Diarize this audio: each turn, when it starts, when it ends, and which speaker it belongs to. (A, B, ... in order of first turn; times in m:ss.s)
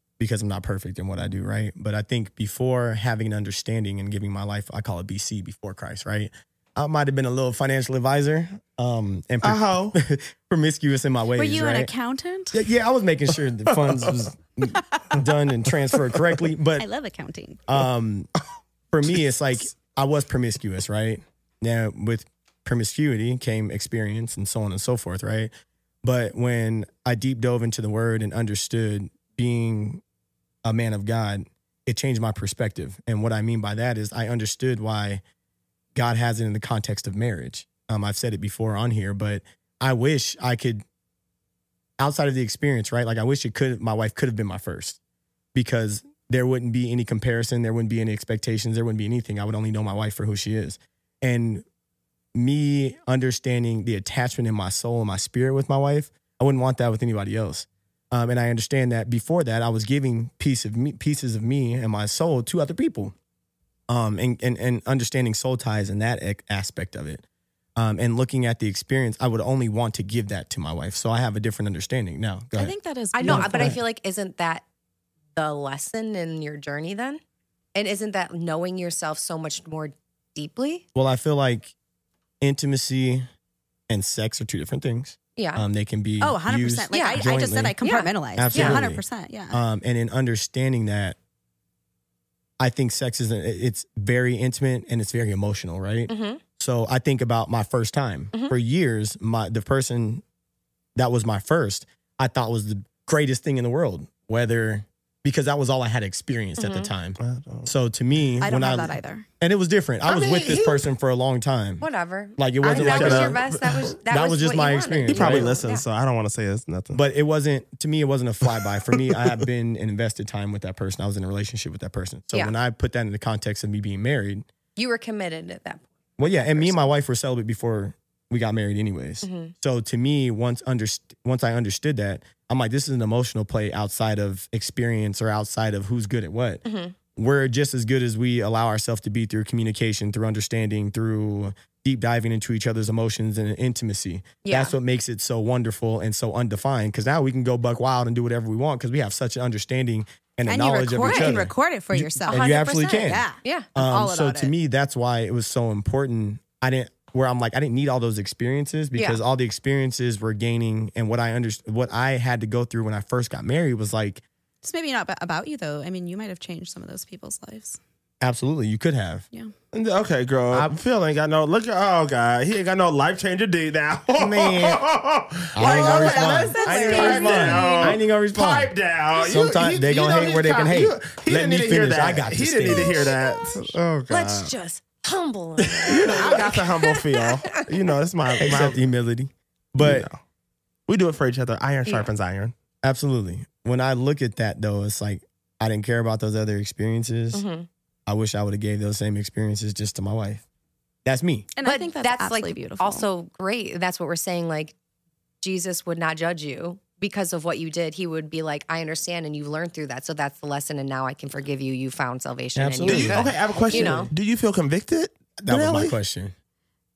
0:00.2-0:11.9 A
0:09.4-0:10.0 B
0:11.4-0:12.7 C
0:12.5-0:16.9 A
0:13.7-0:14.2 B
0:16.8-0:17.6 C
0:17.7-0:18.3 A
0:18.9-0:25.5 A
0:26.0-0:30.0 A
0:30.6-0:35.2 A
0:36.0-0:40.8 A
0:42.0-0:45.0 A
0:45.5-0:51.6 A
0:52.3-1:03.1 A
1:03.9-1:07.2 A
1:07.8-1:12.8 A
1:12.5-1:13.8 C
1:13.1-1:14.6 D
1:13.3-1:13.8 A
1:15.4-1:17.2 D
1:17.8-1:20.8 D
1:21.0-1:21.7 A
1:22.4-1:23.3 A
1:23.9-1:27.8 A
1:25.4-1:25.6 D
1:26.2-1:29.6 C
1:26.9-1:27.2 D
1:27.8-1:28.8 D
1:28.3-1:31.2 A
1:32.6-1:40.2 A
1:36.1-1:36.4 D
1:41.0-1:53.5 A
1:46.6-1:46.9 D
1:47.2-1:47.7 B
1:48.4-1:49.3 C
1:50.1-1:50.9 B
1:51.8-1:55.8 D
1:52.6-1:53.9 B
1:54.0-1:55.5 A
1:55.1-1:57.0 B
1:56.9-2:04.5 A
1:58.5-1:59.4 B
2:04.8-2:06.9 D
2:06.2-2:16.6 A
2:09.2-2:09.5 D
2:16.6-2:17.0 D
2:17.2-2:44.2 A
2:24.4-2:24.8 D
2:30.5-2:34.5 C
2:31.0-2:31.4 D
2:32.3-2:33.7 D
2:39.0-2:39.2 D
2:44.6-2:47.8 C
2:48.2-2:49.2 A
2:49.7-3:04.5 B
2:54.2-2:54.8 A
2:55.5-3:03.1 A
2:55.6-2:58.0 C
2:56.8-2:57.1 D
3:02.7-3:07.7 D
3:05.6-3:06.4 A
3:05.9-3:08.8 B
3:08.4-3:10.1 A
3:09.8-3:10.2 B
3:10.9-3:12.5 B
3:12.8-3:17.4 A
3:17.3-3:17.7 D
3:18.1-3:20.4 A
3:21.0-3:21.5 A
3:21.6-3:23.1 C
3:21.6-3:24.8 D
3:25.4-3:34.1 D
3:32.6-3:34.1 A
3:32.8-3:36.0 B
3:35.4-3:36.3 A